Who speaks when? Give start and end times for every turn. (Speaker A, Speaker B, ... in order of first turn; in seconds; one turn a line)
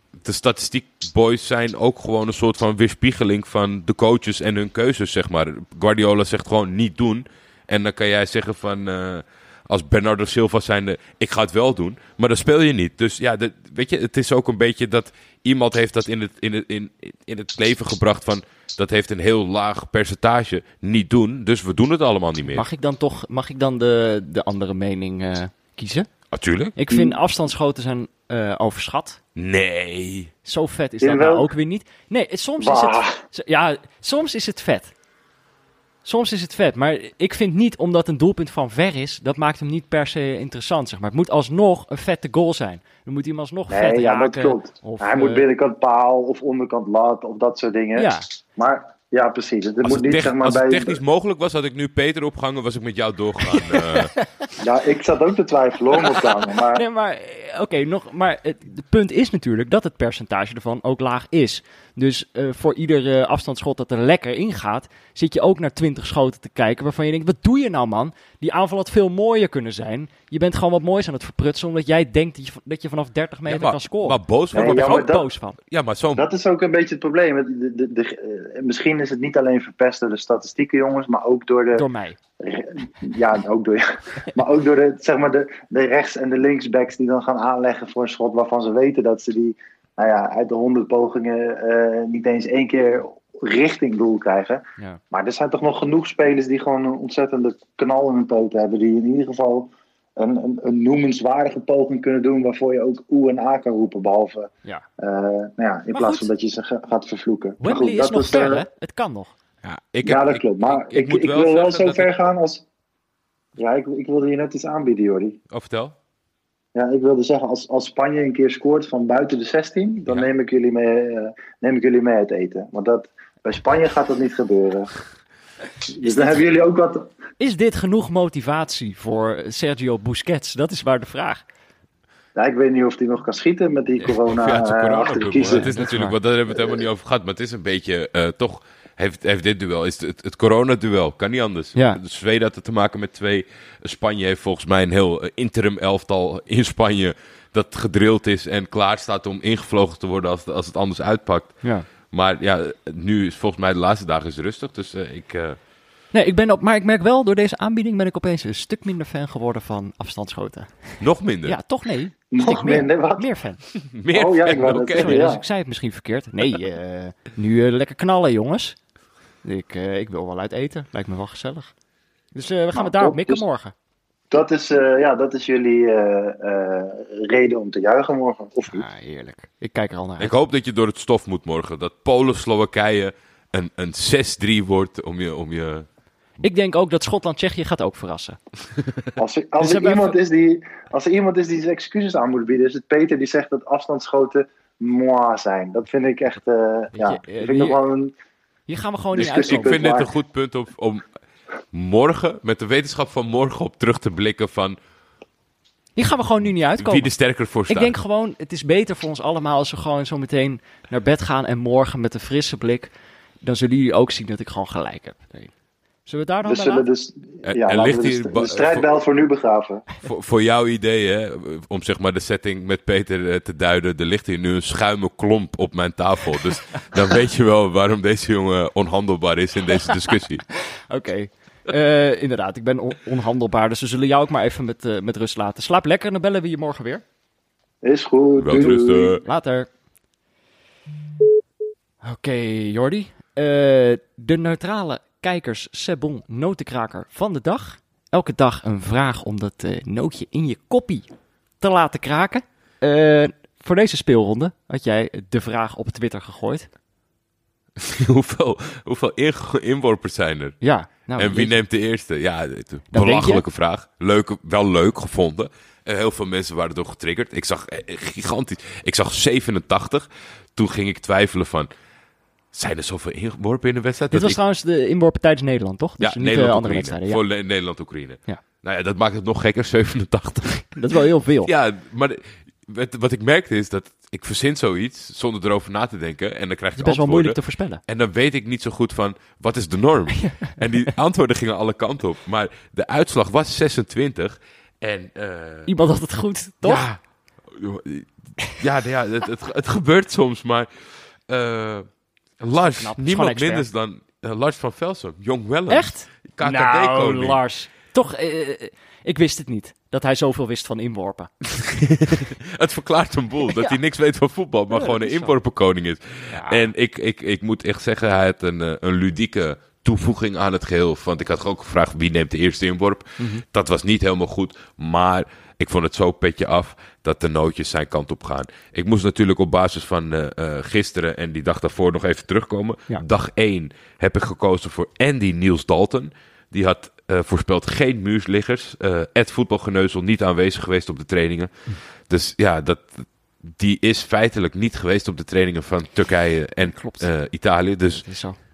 Speaker A: 0.2-22.7
Speaker B: 22.5-26.1
Speaker A: 26.3-26.8
Speaker B: 26.8-29.2
Speaker A: 29.4-30.3
Speaker B: 30.4-34.9
Speaker C: 31.0-31.5
Speaker C: 32.6-33.2
Speaker B: 36.0-45.5
Speaker C: 43.7-51.0
Speaker B: 48.0-48.3
Speaker A: 49.8-54.1
Speaker B: 53.5-54.3
Speaker C: 54.6-56.8
Speaker B: 56.0-75.6
Speaker A: 73.5-76.3
Speaker C: 74.5-75.3
Speaker C: 76.2-81.8
Speaker B: 81.7-82.2
Speaker C: 82.4-108.6
Speaker B: 105.9-106.3
Speaker B: 107.6-109.3
Speaker A: 109.6-112.1
Speaker C: 110.0-112.7
Speaker C: 113.6-115.4
Speaker A: 115.5-116.0
Speaker C: 116.8-124.9
Speaker C: 126.0-127.1
Speaker B: 126.0-126.5
Speaker B: 127.4-131.4
Speaker C: 132.4-135.7
Speaker A: 134.3-151.6
Speaker B: 135.4-136.2
Speaker C: 136.5-136.8
Speaker B: 141.8-142.0
Speaker A: 152.1-155.6
Speaker B: 156.1-163.6
Speaker A: 161.0-161.6
Speaker C: 162.3-163.3
Speaker A: 163.9-165.3
Speaker C: 164.1-165.4
Speaker B: 164.9-168.8
Speaker B: 169.4-171.7
Speaker B: 172.3-173.7
Speaker C: 172.8-173.4
Speaker C: 174.3-178.8
Speaker B: 178.7-180.4
Speaker A: 180.2-185.9
Speaker B: 186.4-188.4
Speaker C: 189.2-198.1
Speaker B: 189.6-190.2
Speaker B: 196.9-197.8
Speaker B: 198.7-199.8
Speaker C: 199.2-200.1
Speaker A: 199.2-201.1
Speaker A: 201.7-204.8
Speaker B: 206.0-207.1
Speaker A: 206.8-208.0
Speaker B: 207.7-212.9
Speaker B: 213.4-215.5
Speaker B: 216.1-216.9
Speaker C: 216.4-219.9
Speaker A: 217.5-218.9
Speaker A: 220.0-230.4
Speaker B: 230.9-237.0
Speaker C: 237.8-239.2
Speaker A: 238.4-239.2
Speaker B: 238.6-239.7
Speaker B: 242.0-251.1
Speaker B: 251.6-256.7
Speaker A: 257.8-260.6
Speaker B: 260.6-261.6
Speaker A: 261.2-271.7
Speaker B: 262.9-263.4
Speaker A: 272.5-274.4
Speaker B: 274.1-277.2
Speaker A: 276.0-280.7
Speaker B: 280.7-281.5
Speaker A: 281.4-295.7
Speaker B: 286.8-287.8
Speaker B: 290.2-290.5
Speaker B: 295.7-296.9
Speaker A: 296.6-300.7
Speaker A: 301.3-301.9
Speaker A: 302.4-307.4
Speaker B: 302.5-303.7
Speaker B: 305.7-311.3
Speaker A: 311.4-348.1
Speaker B: 313.5-313.8
Speaker B: 314.7-315.4
Speaker B: 316.3-316.7
Speaker B: 323.2-323.4
Speaker B: 346.6-347.1
Speaker B: 348.0-348.4